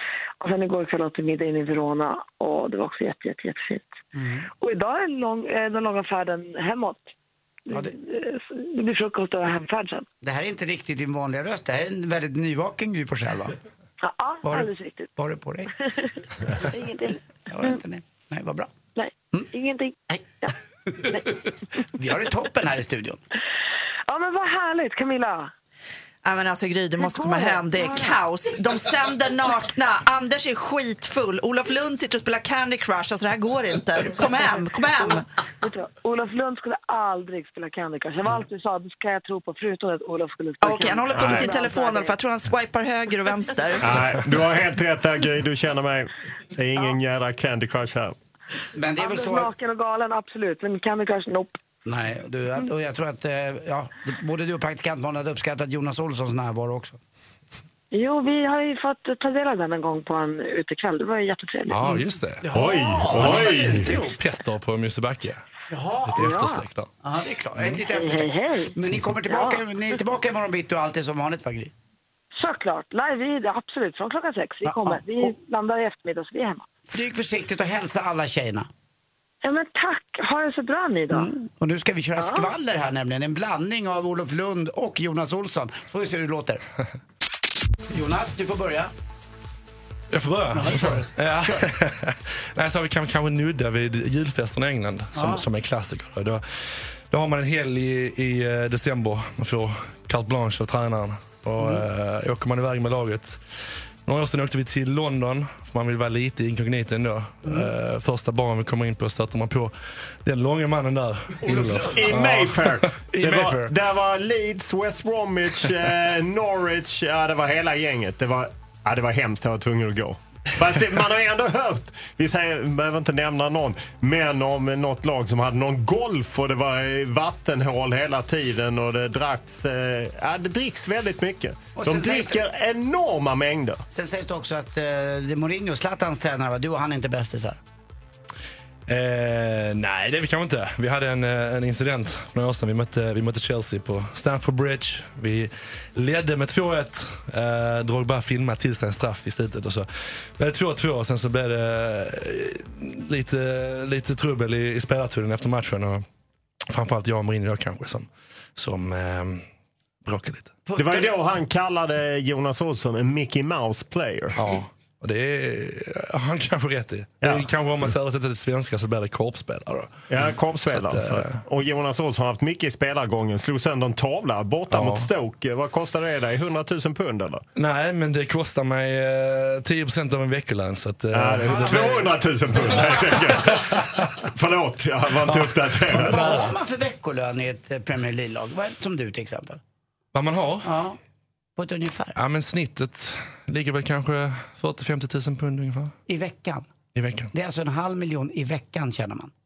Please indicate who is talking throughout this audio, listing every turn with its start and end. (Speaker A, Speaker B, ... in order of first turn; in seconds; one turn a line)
Speaker A: 0.4-3.9
Speaker B: 4.2-4.5
Speaker A: 4.6-7.1
Speaker A: 7.7-10.1
Speaker B: 10.2-13.6
Speaker A: 14.0-15.1
Speaker B: 14.4-15.7
Speaker A: 15.8-16.1
Speaker A: 16.6-17.8
Speaker B: 17.5-18.7
Speaker A: 18.9-20.5
Speaker B: 20.9-21.2
Speaker B: 21.9-23.2
Speaker A: 24.1-25.5
Speaker C: 26.2-35.2
Speaker A: 27.0-28.2
Speaker A: 35.6-42.2
Speaker C: 40.6-44.0
Speaker D: 41.1-41.5
Speaker D: 43.8-48.1
Speaker B: 48.7-49.5
Speaker A: 49.0-51.6
Speaker B: 51.9-57.0
Speaker A: 57.9-62.0
Speaker E: 61.7-62.5
Speaker B: 61.9-64.2
Speaker D: 62.5-63.9
Speaker E: 63.1-65.4
Speaker B: 65.7-66.5
Speaker E: 66.1-66.9
Speaker A: 66.1-66.6
Speaker B: 67.0-71.7
Speaker A: 67.8-69.6
Speaker A: 72.3-76.7
Speaker B: 74.7-75.3
Speaker B: 76.9-78.7
Speaker A: 79.4-81.3
Speaker B: 81.1-86.6
Speaker A: 82.2-82.5
Speaker B: 87.9-88.9
Speaker E: 90.1-113.7
Speaker B: 90.5-91.7
Speaker B: 95.1-95.5
Speaker B: 101.6-101.8
Speaker B: 107.5-107.7
Speaker B: 111.5-112.1
Speaker D: 111.5-133.8
Speaker B: 131.8-132.4
Speaker B: 133.9-137.6
Speaker E: 138.9-156.1
Speaker E: 156.7-159.4
Speaker E: 160.1-160.5
Speaker B: 160.7-161.1
Speaker D: 160.8-164.5
Speaker E: 164.3-171.4
Speaker D: 167.2-167.9
Speaker D: 170.1-177.4
Speaker E: 174.7-175.1
Speaker E: 177.6-183.1
Speaker D: 181.1-186.4
Speaker B: 181.5-182.1
Speaker B: 185.3-189.6
Speaker E: 186.0-186.5
Speaker E: 190.1-190.7
Speaker B: 190.7-191.0
Speaker B: 191.6-192.2
Speaker E: 192.2-195.9
Speaker B: 196.1-196.7
Speaker E: 196.9-197.3
Speaker B: 197.3-199.3